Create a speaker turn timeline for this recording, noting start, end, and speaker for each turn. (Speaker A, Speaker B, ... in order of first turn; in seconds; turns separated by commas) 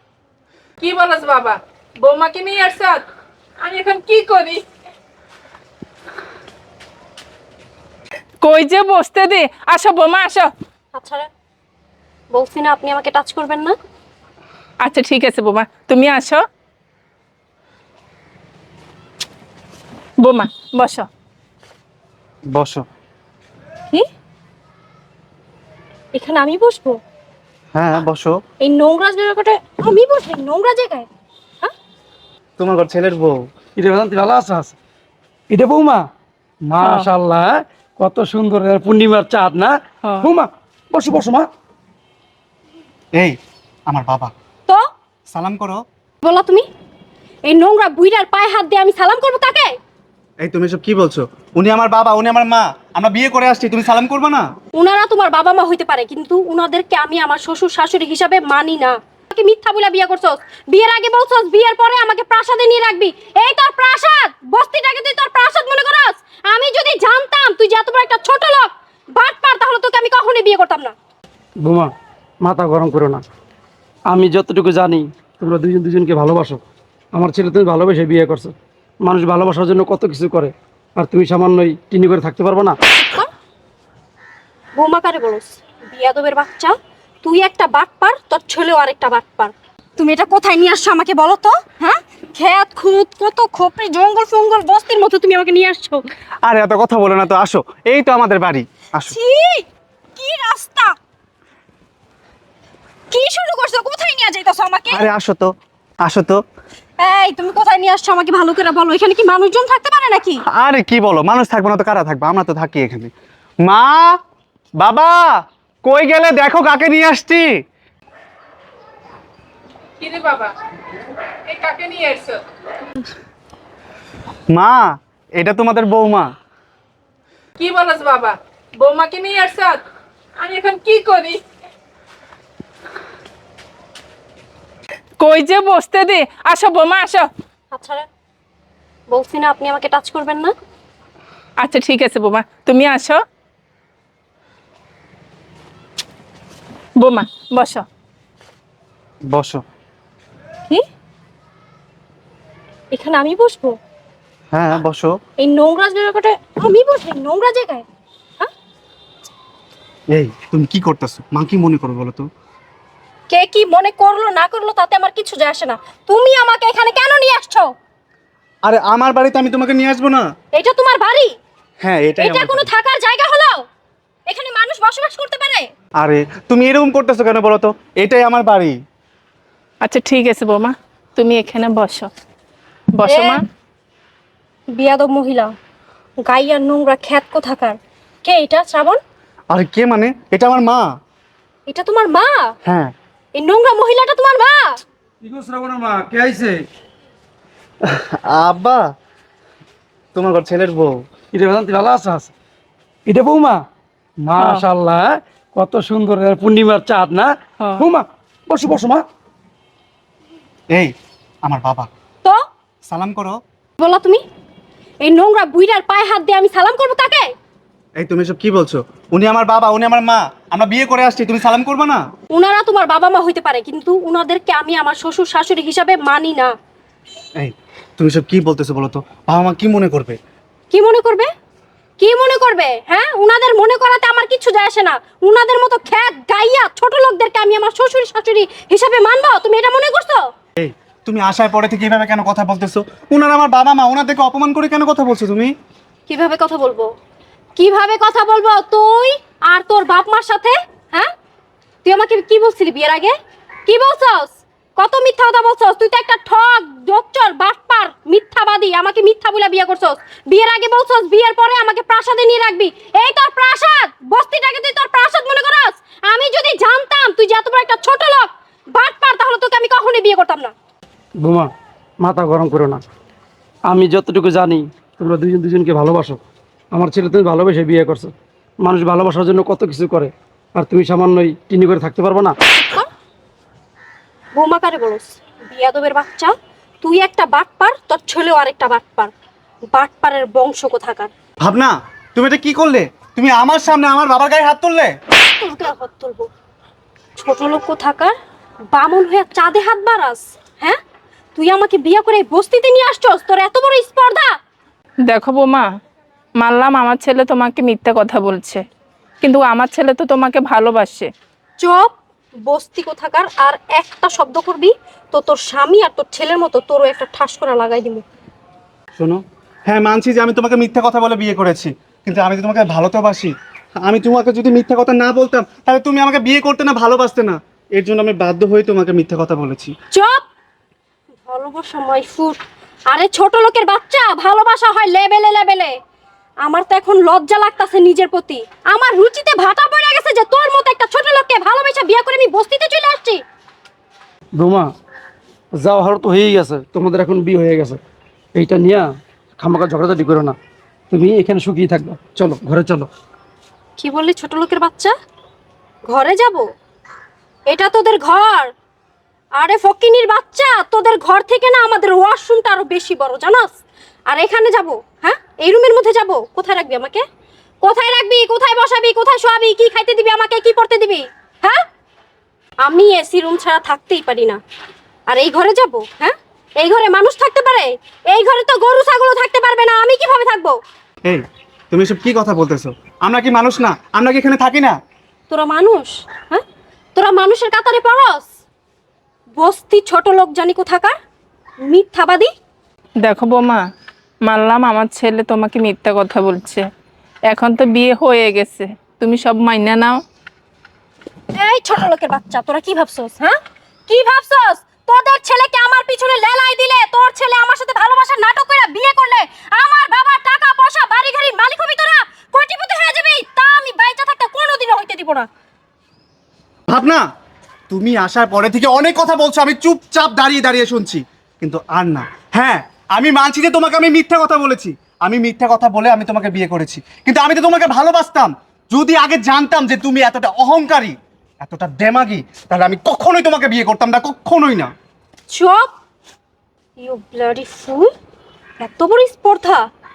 Speaker A: 0.8-3.0, Speaker A: 3.6-4.6, Speaker A: 8.4-10.5, Speaker B: 10.9-11.3, Speaker B: 12.3-13.7, Speaker A: 14.8-16.4, Speaker A: 20.2-21.1, Speaker C: 22.5-22.8, Speaker B: 26.1-27.0, Speaker C: 27.7-28.4, Speaker B: 28.6-31.1, Speaker C: 32.6-33.4, Speaker D: 33.8-34.8, Speaker D: 35.5-36.0, Speaker D: 36.7-41.5, Speaker A: 36.8-37.1, Speaker C: 43.9-44.3, Speaker C: 45.3-45.8, Speaker B: 46.2-46.6, Speaker B: 47.5-49.8, Speaker C: 50.4-54.4, Speaker B: 54.7-70.9, Speaker D: 71.6-71.9, Speaker D: 72.4-73.2, Speaker D: 74.1-76.6, Speaker D: 77.1-82.7, Speaker B: 82.9-83.3, Speaker B: 84.8-96.0, Speaker C: 96.4-99.2, Speaker B: 99.0-100.9, Speaker B: 103.1-105.1, Speaker C: 104.9-106.4, Speaker B: 107.0-110.4, Speaker C: 110.5-113.1, Speaker C: 113.6-114.2, Speaker C: 114.8-117.5, Speaker A: 120.0-120.5, Speaker A: 121.5-122.4, Speaker C: 124.5-126.3, Speaker A: 127.6-129.8, Speaker A: 130.4-131.4, Speaker A: 135.2-137.3, Speaker B: 137.7-138.0, Speaker B: 139.1-140.5, Speaker A: 141.6-143.2, Speaker A: 147.0-147.8, Speaker C: 149.3-149.6, Speaker B: 152.9-153.8, Speaker C: 154.5-155.1, Speaker B: 155.4-157.8, Speaker C: 160.1-162.2, Speaker B: 163.3-167.7, Speaker C: 168.6-170.2, Speaker B: 170.5-171.3, Speaker C: 171.8-172.7, Speaker B: 172.2-173.6, Speaker B: 174.3-175.7, Speaker C: 176.0-178.7, Speaker A: 179.8-182.1, Speaker A: 182.9-183.4, Speaker B: 183.0-183.4, Speaker B: 184.7-185.5, Speaker B: 186.2-189.0, Speaker C: 189.5-190.9, Speaker B: 191.7-192.5, Speaker C: 192.6-192.9, Speaker B: 193.3-194.8, Speaker D: 195.2-196.6, Speaker C: 197.8-198.8, Speaker C: 200.1-201.0, Speaker D: 201.3-202.3, Speaker D: 203.1-203.6, Speaker D: 204.2-209.0, Speaker A: 204.4-204.6, Speaker A: 207.6-207.9, Speaker C: 211.4-211.9, Speaker C: 212.9-213.4, Speaker B: 213.8-214.2, Speaker B: 215.0-217.3, Speaker C: 218.0-222.0, Speaker B: 222.3-226.5, Speaker C: 227.4-230.2, Speaker B: 230.7-231.3, Speaker B: 232.0-240.2, Speaker C: 240.6-245.5, Speaker B: 246.1-246.9, Speaker B: 247.6-251.1, Speaker B: 251.8-253.1, Speaker B: 253.7-270.5, Speaker D: 271.2-271.5, Speaker D: 272.0-272.8, Speaker D: 273.7-276.2, Speaker D: 276.7-282.3, Speaker B: 282.5-282.9, Speaker B: 284.3-289.1, Speaker B: 289.7-291.1, Speaker C: 291.4-294.9, Speaker B: 295.1-296.3, Speaker B: 297.2-298.1, Speaker B: 298.7-300.8, Speaker B: 301.3-304.3, Speaker A: 305.1-305.7, Speaker A: 306.4-308.6, Speaker A: 309.2-311.1, Speaker B: 311.6-311.9, Speaker B: 312.5-318.0, Speaker C: 318.9-323.3, Speaker C: 323.8-329.7, Speaker B: 329.9-330.2, Speaker B: 331.3-335.8, Speaker B: 336.4-343.2, Speaker D: 344.4-344.7, Speaker D: 345.6-347.8, Speaker D: 348.3-350.4, Speaker D: 350.9-352.9, Speaker B: 353.8-354.9, Speaker B: 355.9-356.4, Speaker B: 357.5-358.5, Speaker B: 359.4-363.5, Speaker B: 364.1-367.0, Speaker B: 367.6-371.6, Speaker B: 372.6-374.4, Speaker B: 375.1-380.6, Speaker C: 381.1-384.7, Speaker B: 385.3-386.4, Speaker B: 386.9-388.3, Speaker B: 389.4-390.9, Speaker B: 391.6-392.3, Speaker A: 393.0-393.6, Speaker A: 394.2-396.6, Speaker A: 397.3-400.0, Speaker B: 401.3-415.3, Speaker C: 416.7-417.0, Speaker C: 417.7-434.7, Speaker B: 435.3-435.7, Speaker B: 436.8-437.9, Speaker B: 438.6-439.6